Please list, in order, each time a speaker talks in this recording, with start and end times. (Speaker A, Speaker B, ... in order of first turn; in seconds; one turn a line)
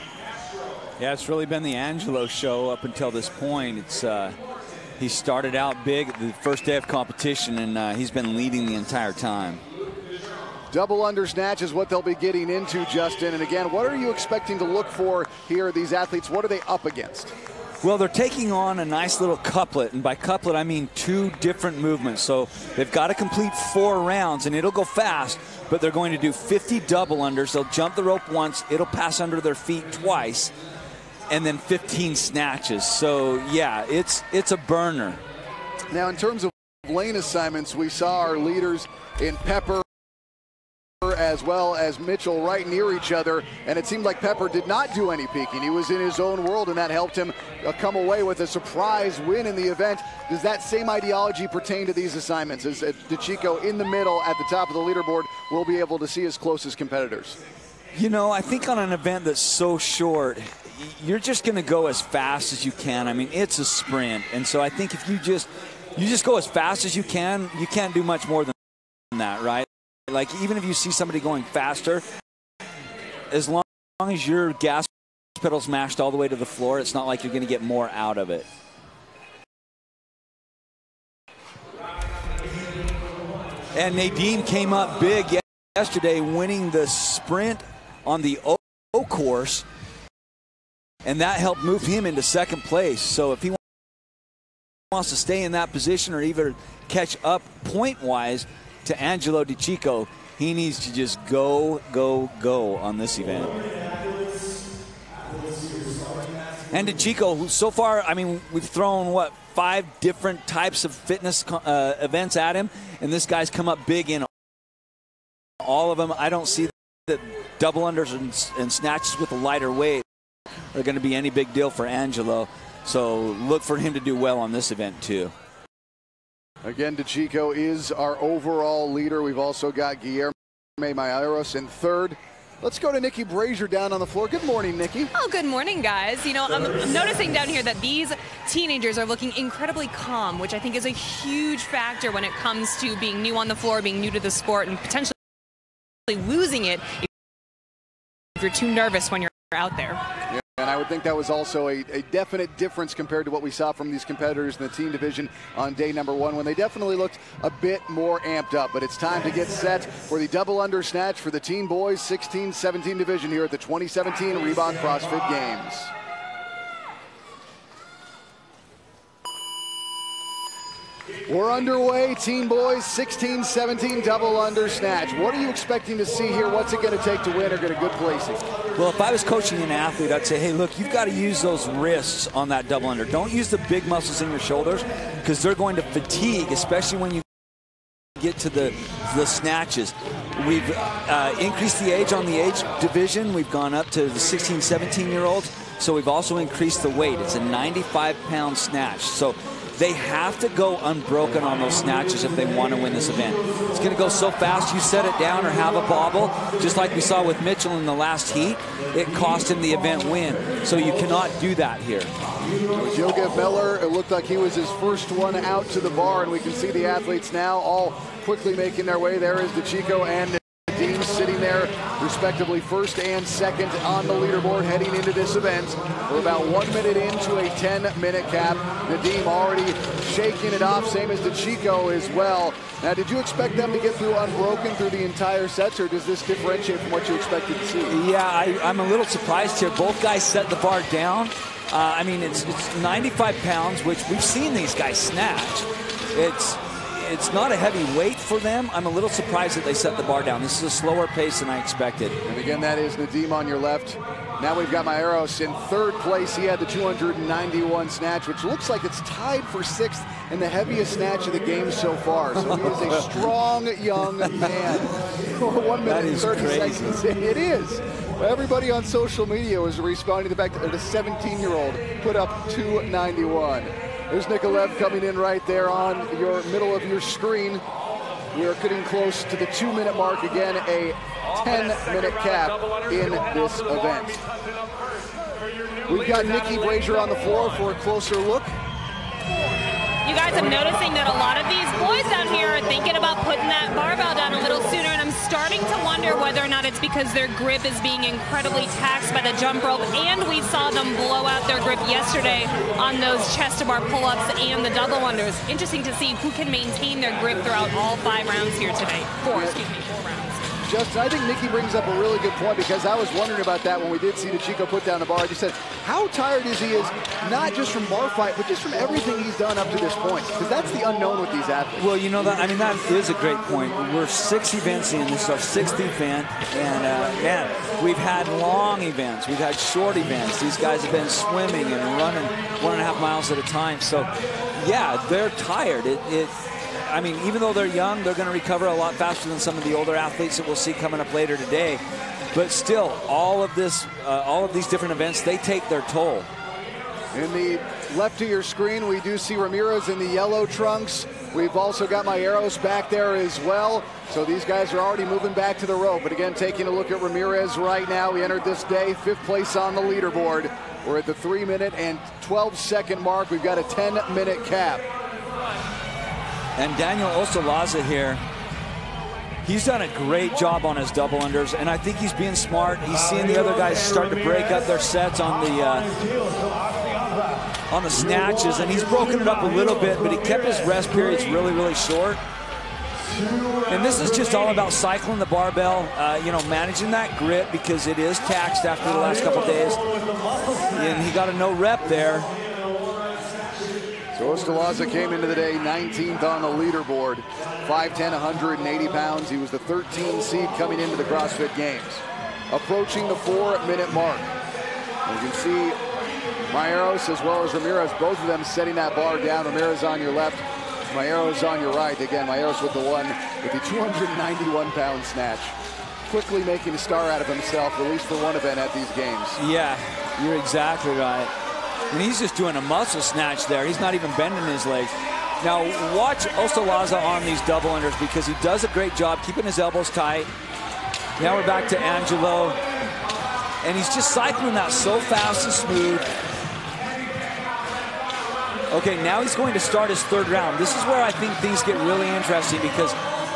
Speaker A: 1.0-4.3
Speaker A: 5.0-9.6
Speaker B: 10.7-17.3
Speaker A: 17.8-30.5
Speaker A: 31.3-35.2
Speaker B: 35.9-39.8
Speaker B: 41.0-57.4
Speaker A: 57.9-68.5
Speaker A: 69.1-72.0
Speaker A: 73.3-78.5
Speaker A: 83.7-89.6
Speaker A: 91.0-93.6
Speaker A: 94.9-103.6
Speaker A: 106.7-114.3
Speaker A: 115.6-120.0
Speaker A: 120.7-125.3
Speaker B: 126.6-135.1
Speaker C: 135.1-145.2
Speaker C: 146.1-147.1
Speaker C: 148.3-150.0
Speaker B: 150.3-165.9
Speaker B: 171.3-178.4
Speaker A: 178.7-187.2
Speaker A: 188.2-212.1
Speaker B: 212.7-238.0
Speaker A: 237.9-252.2
Speaker B: 252.2-277.6
Speaker A: 262.4-263.2
Speaker A: 264.2-264.5
Speaker A: 265.8-267.0
Speaker B: 278.3-284.2
Speaker B: 285.9-288.5
Speaker C: 290.0-310.4
Speaker B: 309.3-309.6
Speaker B: 310.6-321.9
Speaker A: 321.8-336.3
Speaker A: 336.9-341.8
Speaker A: 342.3-346.3
Speaker B: 347.1-364.9
Speaker A: 366.6-368.2
Speaker A: 369.4-376.0
Speaker A: 377.7-382.2
Speaker A: 383.6-389.8
Speaker A: 390.5-392.3
Speaker B: 394.1-404.3
Speaker B: 405.1-405.8
Speaker B: 406.5-419.4
Speaker A: 419.4-421.3
Speaker A: 421.9-430.3
Speaker A: 431.2-432.6
Speaker A: 433.6-436.1
Speaker A: 438.7-443.0